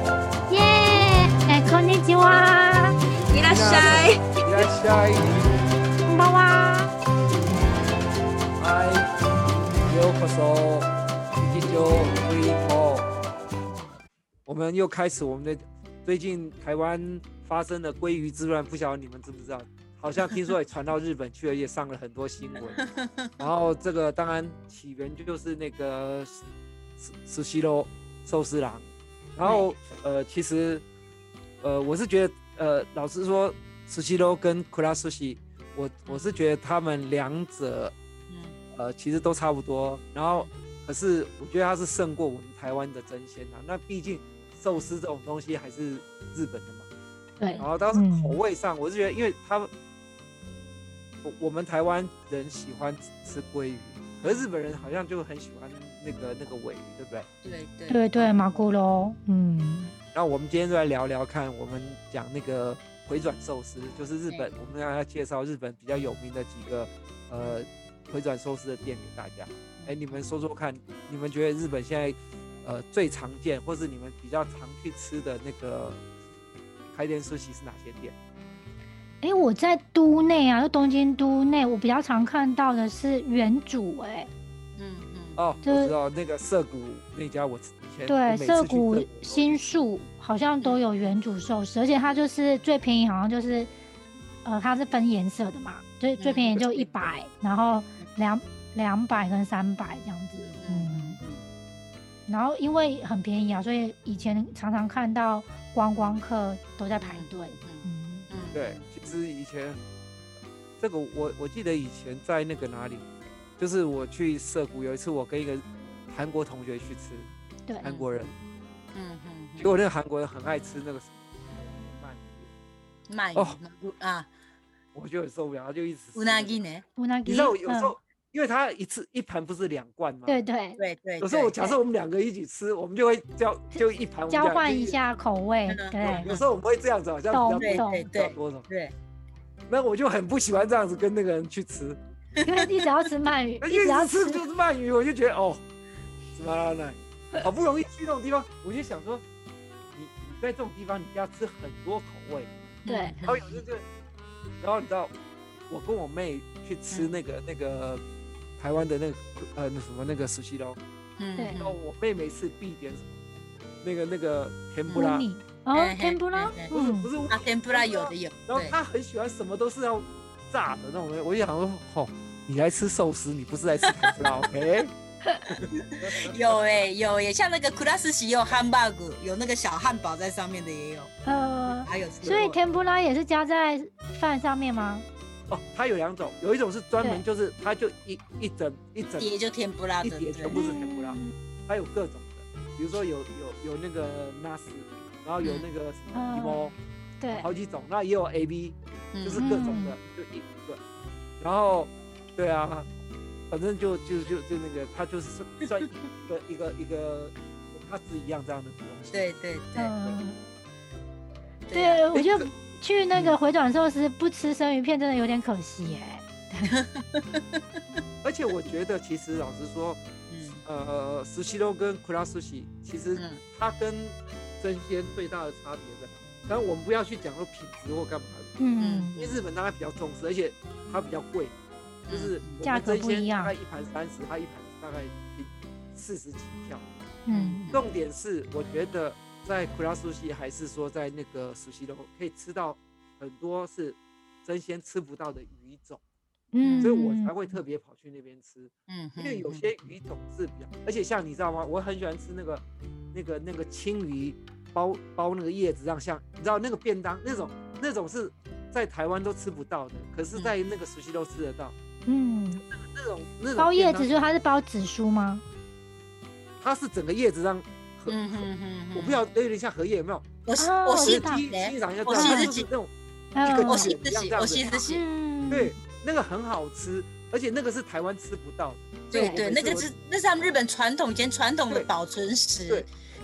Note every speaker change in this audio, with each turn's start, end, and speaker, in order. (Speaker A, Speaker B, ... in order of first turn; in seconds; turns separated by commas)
Speaker A: 0.5-3.0, Speaker B: 3.3-4.7, Speaker C: 3.4-5.5, Speaker A: 6.1-6.9, Speaker C: 8.6-13.1, Speaker C: 14.5-22.8, Speaker B: 22.8-23.5, Speaker C: 23.4-26.4, Speaker C: 27.0-30.9, Speaker C: 31.6-38.0, Speaker B: 38.3-38.6, Speaker C: 38.7-46.9, Speaker A: 47.4-48.4, Speaker C: 47.6-49.7, Speaker C: 51.2-57.3, Speaker B: 54.2-54.5, Speaker B: 57.4-58.7, Speaker A: 57.9-59.9, Speaker C: 60.1-76.0, Speaker B: 67.4-67.7, Speaker B: 69.8-70.2, Speaker C: 76.9-78.1, Speaker A: 79.2-84.3, Speaker B: 84.8-85.7, Speaker C: 85.4-89.6, Speaker A: 85.7-85.9, Speaker A: 88.1-93.7, Speaker A: 94.5-101.2, Speaker B: 96.2-97.1, Speaker B: 100.3-101.5, Speaker A: 102.3-108.3, Speaker B: 107.0-109.2, Speaker C: 108.5-109.8, Speaker C: 110.8-113.1, Speaker C: 113.6-117.3, Speaker A: 117.7-117.9, Speaker B: 117.8-118.3, Speaker C: 117.8-118.3, Speaker B: 118.9-119.7, Speaker C: 119.6-122.5, Speaker B: 123.1-124.3, Speaker C: 125.0-126.6, Speaker B: 126.2-126.8, Speaker A: 127.0-127.9, Speaker C: 127.2-130.4, Speaker A: 130.3-130.8, Speaker B: 130.8-131.8, Speaker C: 131.2-135.0, Speaker A: 133.8-136.3, Speaker B: 135.7-136.4, Speaker C: 136.1-138.7, Speaker A: 137.3-138.1, Speaker B: 137.6-138.9, Speaker C: 139.7-142.0, Speaker B: 142.4-142.9, Speaker A: 142.4-144.4, Speaker C: 143.6-145.6, Speaker C: 146.3-149.2, Speaker C: 149.9-153.8, Speaker B: 152.8-153.6, Speaker A: 152.9-153.2, Speaker C: 154.6-155.1, Speaker C: 155.7-158.0, Speaker B: 156.9-157.2, Speaker C: 158.6-160.8, Speaker B: 161.2-161.8, Speaker C: 161.6-163.2, Speaker C: 163.8-165.3, Speaker A: 164.9-167.1, Speaker B: 165.7-166.7, Speaker C: 166.7-174.9, Speaker B: 167.3-168.8, Speaker B: 173.9-174.2, Speaker C: 175.5-176.6, Speaker B: 175.7-182.6, Speaker A: 181.2-185.1, Speaker C: 185.5-189.3, Speaker B: 189.2-190.6, Speaker C: 190.0-196.8, Speaker A: 190.5-191.3, Speaker A: 196.1-197.5, Speaker C: 197.4-200.8, Speaker B: 199.1-199.7, Speaker A: 199.4-200.0, Speaker C: 201.4-202.9, Speaker C: 203.5-209.3, Speaker B: 209.1-209.9, Speaker A: 209.8-210.5, Speaker B: 211.7-212.4, Speaker A: 211.7-216.7, Speaker B: 216.7-218.0, Speaker C: 218.2-220.0, Speaker B: 220.3-220.6, Speaker C: 220.6-228.5, Speaker B: 223.2-223.4, Speaker A: 228.6-229.2, Speaker B: 228.8-229.4, Speaker C: 229.2-231.5, Speaker B: 232.1-232.6, Speaker C: 232.1-236.9, Speaker A: 232.6-233.5, Speaker A: 237.3-237.6, Speaker B: 237.3-237.8, Speaker C: 237.7-246.0, Speaker A: 246.5-247.3, Speaker B: 246.6-246.9, Speaker C: 246.8-261.8, Speaker B: 248.9-249.7, Speaker A: 262.1-262.6, Speaker C: 262.6-264.3, Speaker A: 263.6-265.4, Speaker C: 266.6-270.3, Speaker B: 268.1-269.2, Speaker B: 270.5-272.7, Speaker A: 270.6-271.4, Speaker C: 271.0-274.6, Speaker A: 272.1-272.5, Speaker A: 273.3-273.9, Speaker B: 273.7-275.0, Speaker A: 274.7-275.7, Speaker C: 275.5-279.9, Speaker B: 279.1-282.9, Speaker A: 279.1-279.4